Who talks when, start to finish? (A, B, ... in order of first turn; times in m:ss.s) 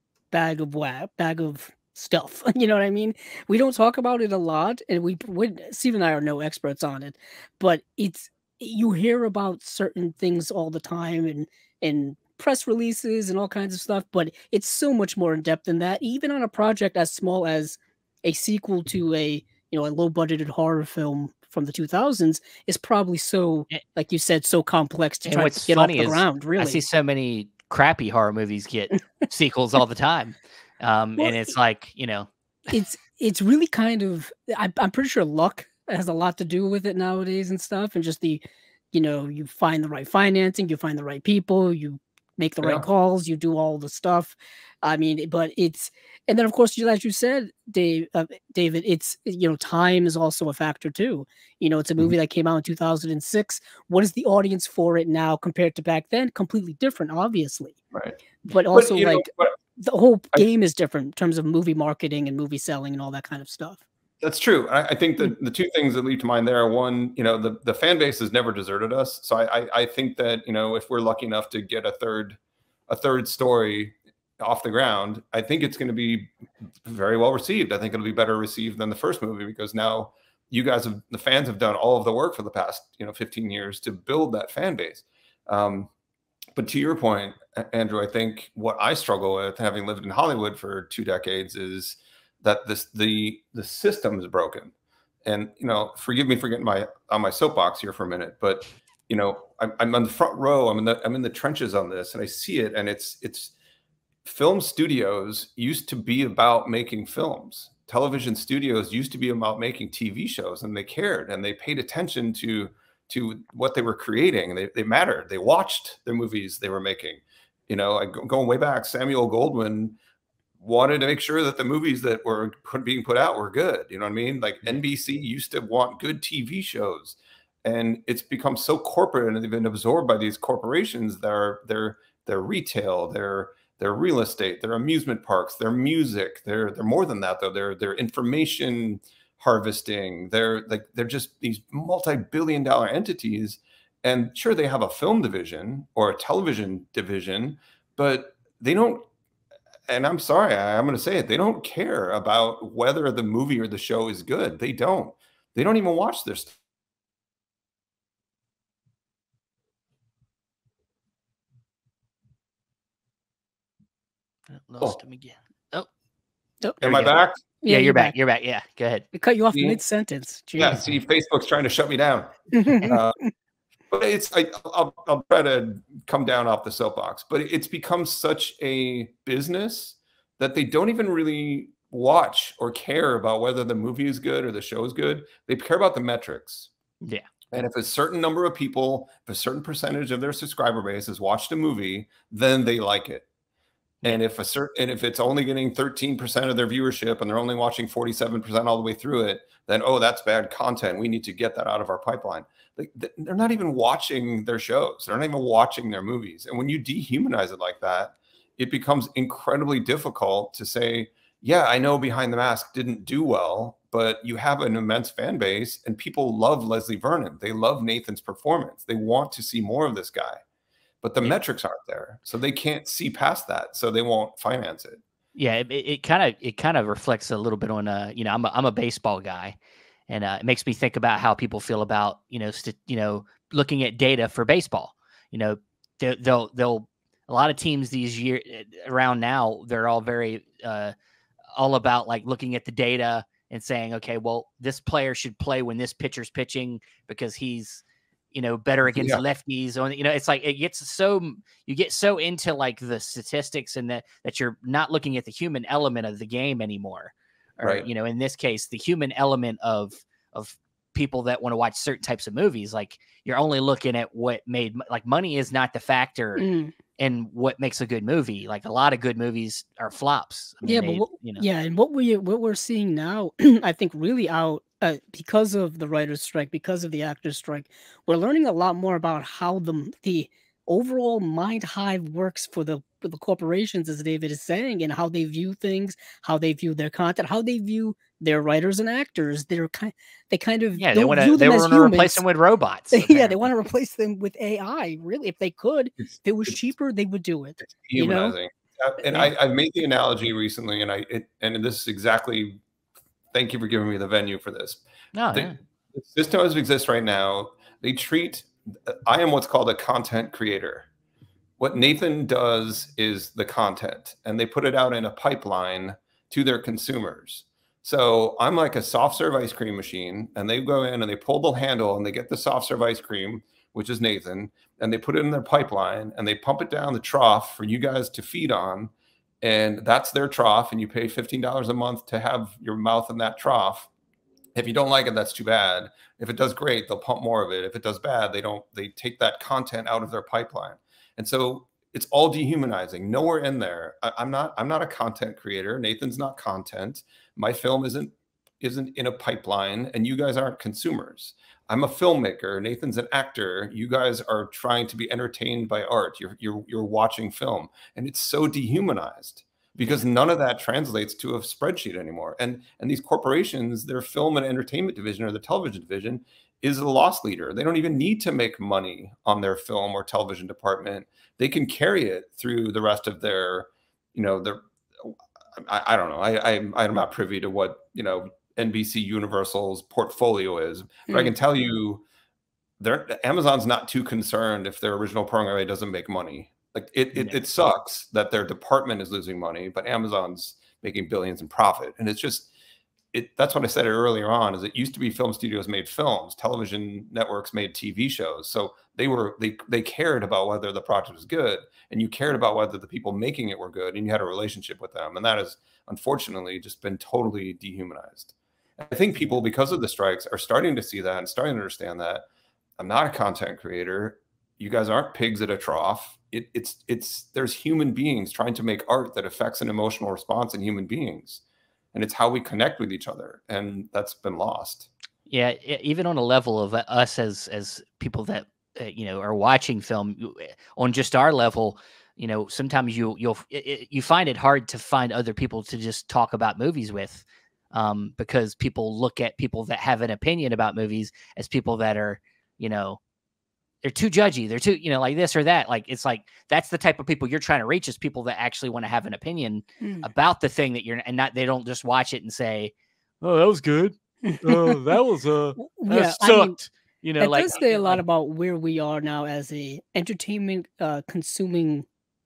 0:00.3-0:26.8 A
0:25.3-0:32.7 B
0:31.2-0:31.5 A
0:32.7-0:57.8 A
0:57.9-0:58.2 C
0:58.5-1:03.8 A
0:58.7-0:59.6 C
1:04.2-1:25.9 C
1:26.6-1:34.7 C
1:35.2-1:43.5 C
1:44.2-2:00.0 C
2:00.6-2:29.1 C
2:29.9-2:36.6 C
2:44.5-2:45.9 B
2:46.8-2:47.4 C
2:46.8-2:49.1 B
2:47.6-2:48.2 A
2:49.1-2:50.8 A
2:49.5-2:49.8 C
2:50.6-2:53.2 C
2:52.5-2:53.0 A
2:53.9-3:06.7 C
3:07.0-3:07.3 B
3:07.5-3:13.3 C
3:14.0-3:40.4 C
3:41.0-3:45.0 C
3:45.4-3:49.6 B
3:50.1-4:00.9 B
4:01.6-4:26.5 B
4:08.9-4:09.2 C
4:17.6-4:17.9 C
4:26.4-4:26.7 A
4:27.0-4:31.5 B
4:30.6-4:52.2 A
4:50.8-4:53.5 B
4:52.9-4:58.4 A
4:56.0-4:56.6 C
4:57.6-5:02.6 C
5:03.3-5:04.8 C
5:05.2-5:05.6 B
5:05.3-5:10.9 C
5:11.6-5:33.9 C
5:34.6-6:22.0 C
5:59.8-6:00.0 B
6:21.1-6:21.3 A
6:22.8-6:32.5 C
6:33.1-6:52.2 C
6:52.8-7:01.4 C
7:01.9-7:04.9 C
7:05.3-7:23.0 B
7:23.8-7:38.0 B
7:29.8-7:30.1 A
7:34.2-7:34.8 A
7:35.6-7:36.6 A
7:37.2-7:41.9 A